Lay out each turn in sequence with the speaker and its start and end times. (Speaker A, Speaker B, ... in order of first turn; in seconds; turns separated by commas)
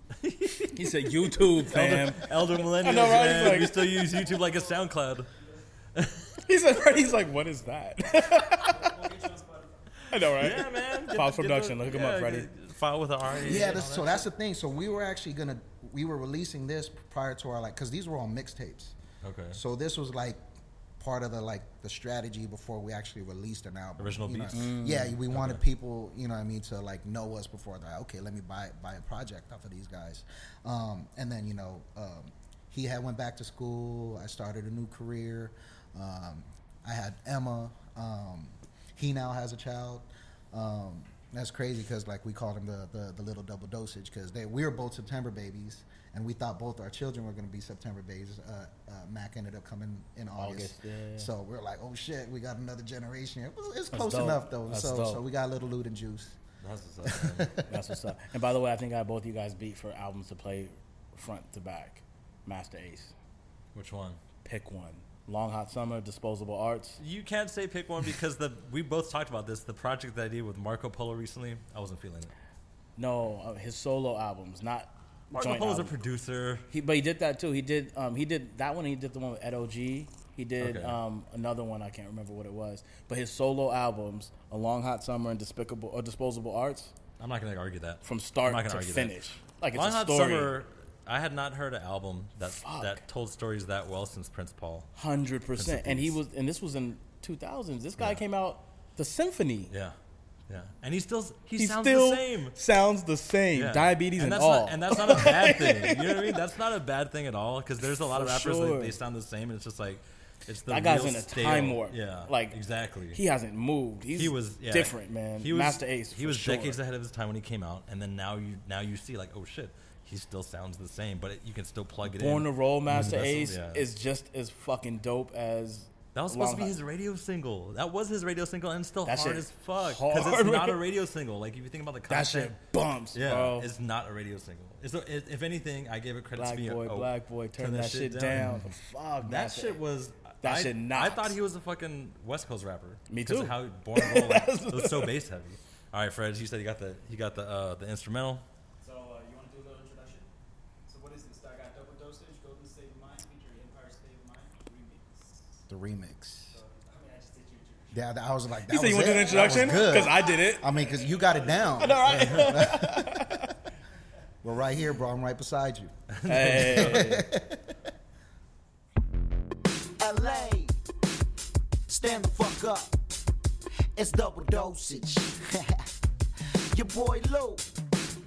Speaker A: 0.2-5.3, Speaker B: 0.7-3.9, Speaker C: 3.8-5.5, Speaker A: 5.9-6.3, Speaker B: 6.4-8.8, Speaker C: 8.5-9.9, Speaker A: 10.0-14.2, Speaker B: 10.1-12.5, Speaker D: 13.3-18.9, Speaker C: 13.5-13.8, Speaker A: 19.2-19.6, Speaker D: 19.5-20.4, Speaker D: 21.0-56.4, Speaker A: 24.0-24.7, Speaker B: 24.5-25.2, Speaker A: 25.3-25.6, Speaker B: 50.4-51.3, Speaker B: 53.9-55.2, Speaker A: 56.6-57.5, Speaker D: 57.0-57.7, Speaker B: 57.6-63.1, Speaker A: 63.7-64.2, Speaker B: 64.4-67.0, Speaker A: 67.0-72.3, Speaker B: 73.0-75.9, Speaker A: 75.3-76.7, Speaker B: 76.7-86.9, Speaker A: 80.6-81.0, Speaker A: 87.2-89.1, Speaker B: 88.0-90.5, Speaker A: 89.7-94.9, Speaker B: 92.5-93.0, Speaker B: 95.0-99.7, Speaker A: 95.6-96.2, Speaker A: 100.5-102.5, Speaker B: 101.6-106.3, Speaker A: 103.5-113.2, Speaker B: 108.0-109.0, Speaker B: 110.7-112.6, Speaker B: 113.1-116.8, Speaker A: 114.1-123.9, Speaker B: 122.1-126.8, Speaker A: 126.1-132.6, Speaker B: 129.1-130.8, Speaker B: 132.1-133.7, Speaker A: 133.1-138.6, Speaker B: 136.3-139.8, Speaker A: 139.2-148.4, Speaker B: 140.4-141.3, Speaker B: 143.1-145.1, Speaker C: 148.8-150.3, Speaker C: 150.9-155.6, Speaker D: 155.7-156.6, Speaker C: 156.5-158.0, Speaker D: 157.9-163.5, Speaker B: 158.7-160.7, Speaker C: 158.9-162.7, Speaker B: 161.8-163.5, Speaker D: 164.4-165.9, Speaker A: 166.1-167.1, Speaker B: 166.2-167.3, Speaker D: 166.5-167.8, Speaker E: 170.0-170.7, Speaker E: 171.9-172.9, Speaker E: 173.9-175.9, Speaker E: 176.7-177.7